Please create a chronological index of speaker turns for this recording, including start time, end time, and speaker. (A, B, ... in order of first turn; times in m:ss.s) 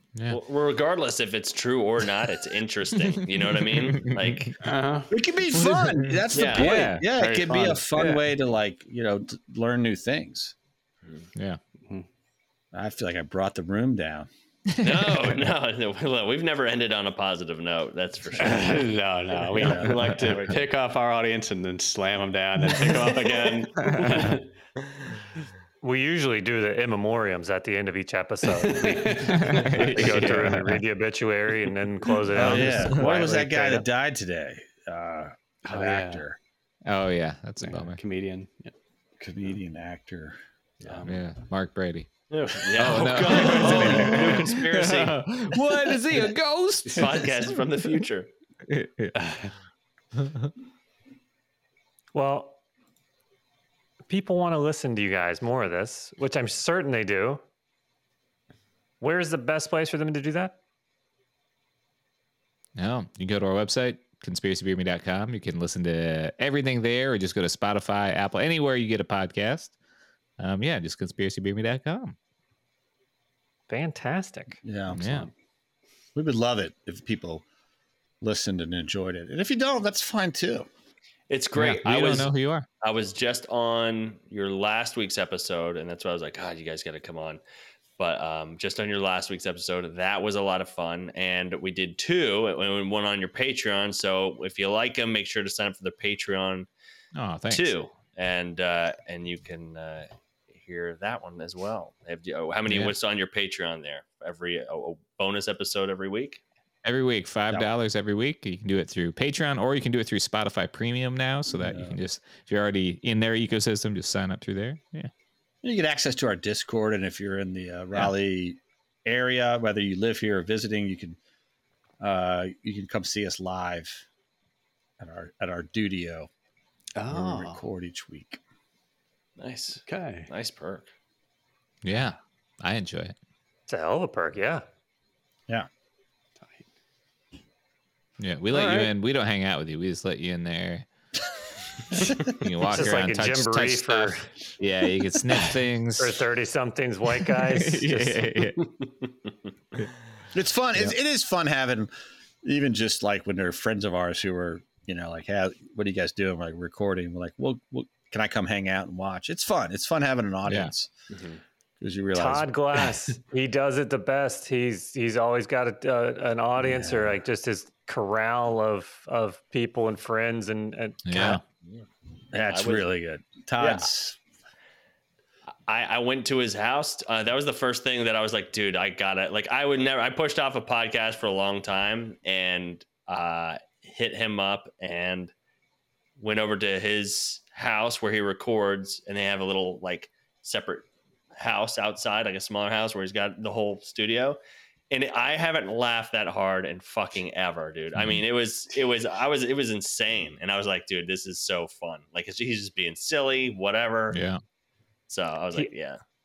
0:00.3-0:04.6 A
0:03.8-0:04.5 B
0:04.6-0:05.1 C
0:05.1-0:10.5 D
0:05.6-0:07.1 B
0:06.3-0:06.7 A
0:06.6-0:07.9 C
0:08.0-0:08.2 B
0:12.7-0:14.3 D
0:14.8-0:18.8 A
0:18.4-0:24.5 C
0:19.5-0:20.6 A
0:23.8-0:24.3 B
0:25.8-0:33.9 E
0:28.5-0:30.8 C
0:29.3-0:30.8 B
0:32.3-0:36.4 D
0:32.5-0:33.0 B
0:35.6-0:36.2 C
0:36.9-0:38.0 B
0:37.6-0:38.7 C
0:39.2-0:41.1 D
0:40.8-0:41.1 C
0:41.0-0:42.1 B
0:42.3-0:45.3 A
0:42.8-0:47.5 B
0:46.9-0:48.3 A
0:48.7-0:49.2 B
0:49.2-0:49.5 C
0:50.2-0:50.5 B
0:52.1-0:52.6 E
0:54.1-0:57.4 E
0:59.0-1:00.6 E
1:02.8-1:09.7 B
1:10.4-1:12.2 B
1:13.7-1:14.6 E
1:14.6-1:15.2 D
1:14.9-1:15.3 C
1:15.0-1:15.3 B
1:16.2-1:17.4 D
1:18.2-1:20.7 D
1:21.3-1:27.4 A
1:21.6-1:22.7 B
1:28.0-1:36.7 A
1:37.2-1:37.7 B
1:37.5-1:46.4 A
1:42.7-1:43.0 B
1:46.8-1:55.1 B
1:51.5-1:52.0 D
1:55.6-2:01.2 D
2:02.0-2:04.0 D
2:05.0-2:06.3 D
2:07.0-2:07.6 C
2:07.1-2:08.4 D
2:09.4-2:10.9 A
2:09.9-2:10.3 C
2:11.8-2:13.2 B
2:13.7-2:14.6 E
2:16.4-2:16.7 C
2:18.2-2:20.9 B
2:18.5-2:18.9 C
2:22.0-2:26.2 B
2:22.7-2:24.3 E
2:26.0-2:28.3 E
2:27.5-2:28.7 B
2:30.3-2:31.9 D
2:32.4-2:40.9 D
2:40.4-2:40.7 B
2:41.1-2:41.4 A
2:41.8-2:42.5 D
2:42.1-2:51.4 E
2:46.6-2:47.2 D
2:51.0-2:51.4 B
2:52.3-2:54.2 D
2:52.4-2:52.8 A
2:53.6-2:53.9 A
2:55.7-3:05.3 A
3:06.2-3:14.4 A
3:14.9-3:24.2 A
3:18.0-3:18.2 B
3:24.1-3:24.4 B
3:25.1-3:26.0 A